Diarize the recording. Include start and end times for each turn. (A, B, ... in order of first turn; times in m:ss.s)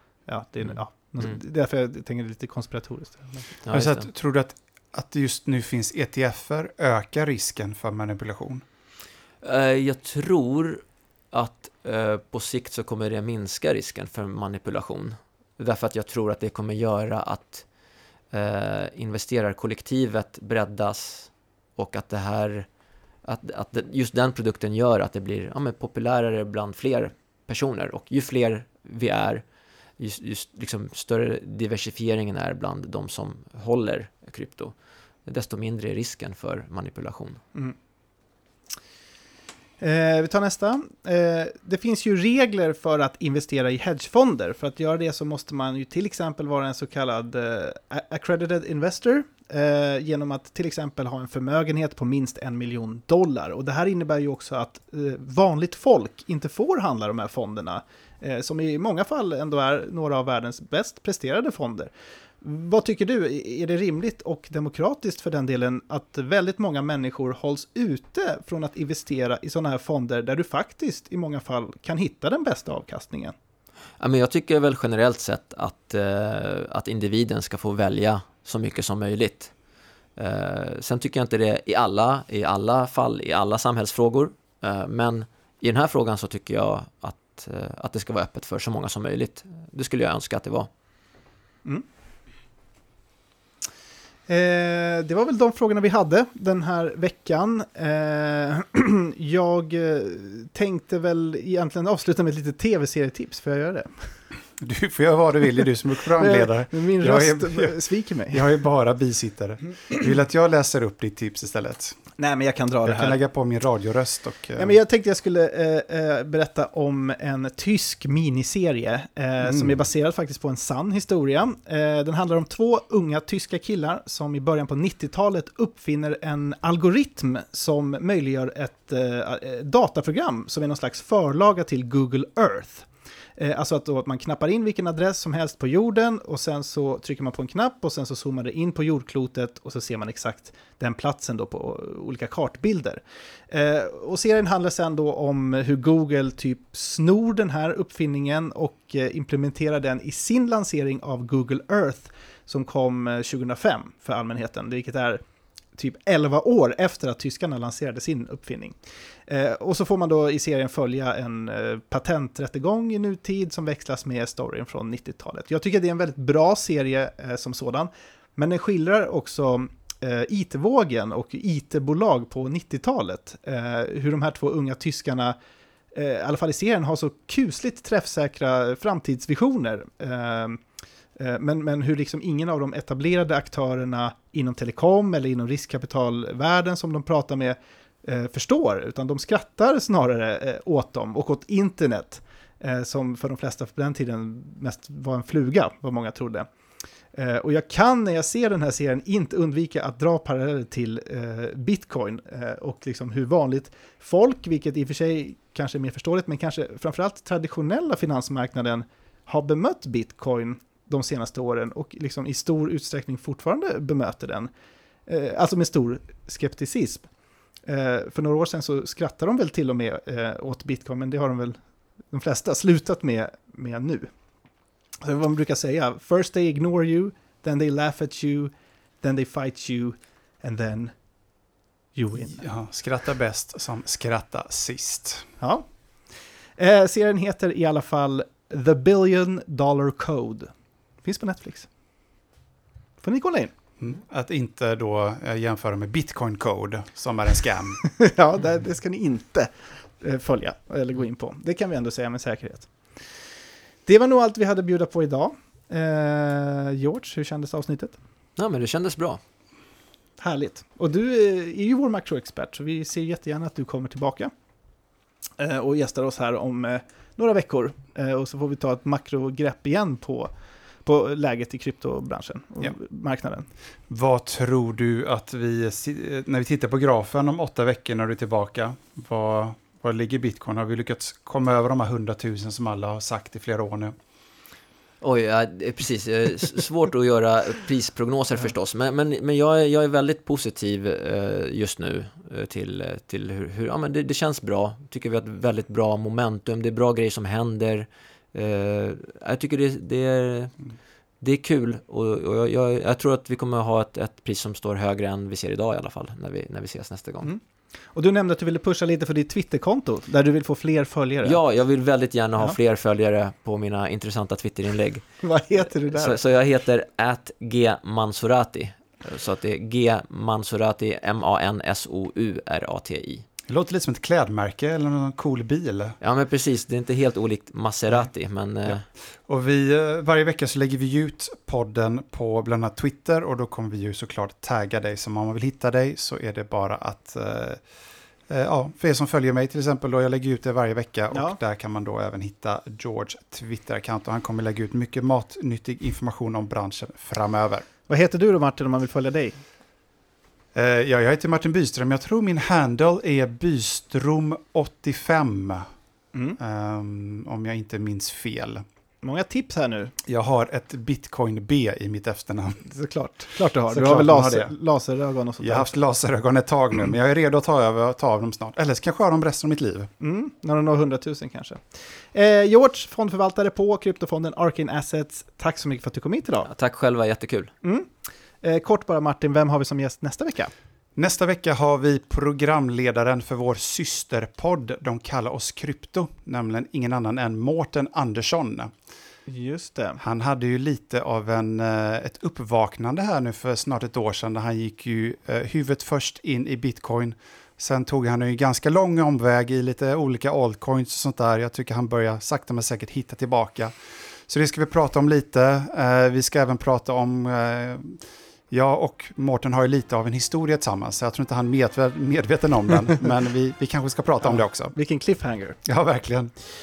0:00.3-0:03.6 A
0:00.6-0:01.4 B
0:03.6-0:04.1 B
0:03.7-0:08.6 C
0:09.4-0:17.7 B
0:18.3-0:22.7 B
0:23.2-0:29.4 B
0:30.0-0:37.4 B
0:39.8-1:01.9 A
1:02.4-1:13.4 A
1:14.0-1:19.5 B
1:20.2-1:30.7 B
1:34.3-1:44.2 A
1:44.6-1:47.8 C
1:46.2-1:48.4 A
1:48.3-1:52.0 C
1:52.2-1:53.2 A
1:52.8-1:54.8 C
1:54.6-2:35.2 A
1:59.4-1:59.8 C
2:35.8-2:55.4 A
2:55.9-3:00.6 A
3:01.2-3:16.5 A
3:17.1-3:34.5 A
3:35.1-3:37.1 A
3:37.7-3:41.6 A
3:42.1-3:44.1 A
3:45.0-3:50.9 A
3:52.0-3:52.5 A
3:52.2-3:55.3 C
3:55.4-3:55.7 A
3:56.6-4:00.5 A
4:01.0-4:01.7 A
4:03.0-4:03.5 A
4:03.8-4:07.8 C
4:07.9-4:12.8 A
4:13.9-4:18.0 A
4:18.4-4:19.2 B
4:20.2-4:24.3 A
4:25.4-4:30.3 A
4:30.8-4:33.5 A
4:33.9-4:43.9 C
4:45.0-5:00.6 B
5:01.2-5:07.3 B
5:07.9-5:11.4 A
5:11.2-5:15.0 B
5:15.2-5:16.2 A
5:15.8-5:23.2 B
5:23.5-5:26.0 C
5:26.0-5:28.8 B
5:29.3-5:37.6 C
5:38.3-5:47.7 C
5:41.1-5:41.4 A
5:47.9-5:49.4 A
5:50.5-5:55.7 C
5:56.4-5:58.6 C
5:59.0-5:59.9 A
6:00.1-6:02.7 C
6:02.7-6:05.8 A
6:03.7-6:04.5 C
6:05.4-6:09.9 C
6:10.0-6:16.5 A
6:16.4-6:17.5 B
6:17.6-6:20.5 A
6:21.0-6:28.7 C
6:29.3-6:30.0 A
6:30.0-6:54.8 C
6:54.3-6:55.6 A
6:55.6-6:56.3 C